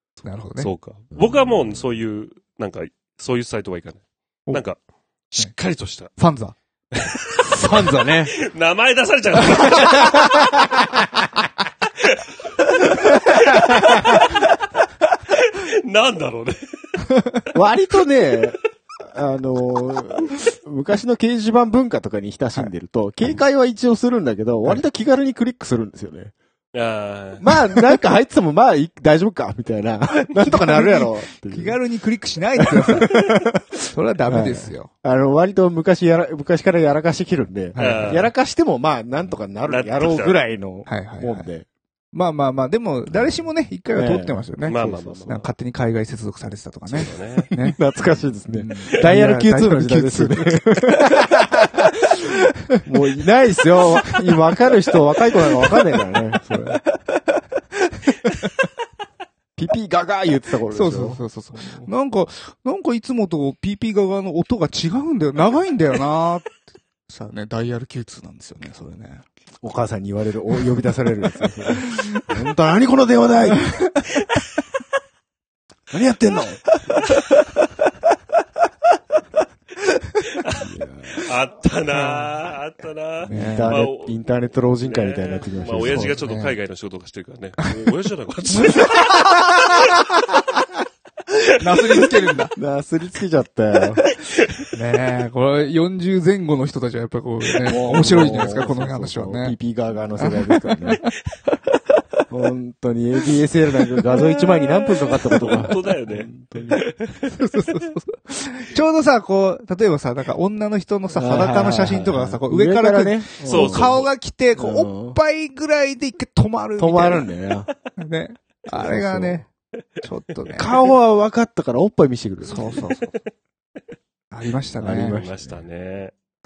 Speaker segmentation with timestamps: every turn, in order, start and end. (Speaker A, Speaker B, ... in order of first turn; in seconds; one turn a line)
Speaker A: 0.2-0.7
Speaker B: 0.6-4.8
Speaker C: 1.1-1.8
Speaker B: 5.3-6.1
Speaker A: 6.2-6.5
Speaker B: 6.9-7.8
Speaker C: 7.5-8.3
Speaker B: 8.3-10.1
Speaker C: 9.7-10.6
Speaker B: 13.0-14.4
Speaker B: 15.3-17.0
Speaker C: 17.5-26.3
Speaker B: 26.7-27.5
Speaker C: 27.4-31.8
Speaker A: 30.4-33.4
Speaker C: 32.6-33.6
Speaker A: 33.9-34.9
Speaker C: 34.3-41.7
Speaker A: 37.7-38.3
Speaker B: 37.8-38.3
Speaker B: 39.7-40.4
Speaker A: 40.9-41.5
Speaker A: 42.1-47.8
Speaker C: 43.9-45.4
Speaker B: 44.6-45.5
Speaker B: 46.9-47.5
Speaker C: 47.0-52.0
Speaker A: 48.5-51.2
Speaker C: 52.8-56.8
Speaker A: 56.7-57.4
Speaker C: 59.6-61.9
Speaker A: 60.7-69.2
Speaker C: 69.6-73.7
Speaker C: 75.9-76.6
Speaker B: 80.3-84.2
Speaker C: 80.6-81.2
Speaker A: 81.9-82.5
Speaker A: 83.2-83.8
Speaker C: 83.3-86.2
Speaker B: 84.8-89.0
Speaker A: 85.9-86.6
Speaker A: 88.8-89.8
Speaker A: 91.6-92.5
Speaker C: 92.5-94.0
Speaker A: 94.7-99.6
Speaker C: 97.7-101.0
Speaker A: 100.2-101.1
Speaker C: 102.3-106.8
Speaker B: 105.3-107.4
Speaker A: 107.3-117.3
Speaker C: 111.1-114.0
Speaker B: 113.4-114.1
Speaker C: 114.6-115.2
Speaker C: 116.8-117.7
Speaker A: 118.0-119.5
Speaker C: 118.7-119.5
Speaker A: 120.0-120.7
Speaker C: 120.5-122.8
Speaker A: 122.5-123.1
Speaker A: 124.3-125.2
Speaker C: 124.8-125.6
Speaker B: 125.1-126.1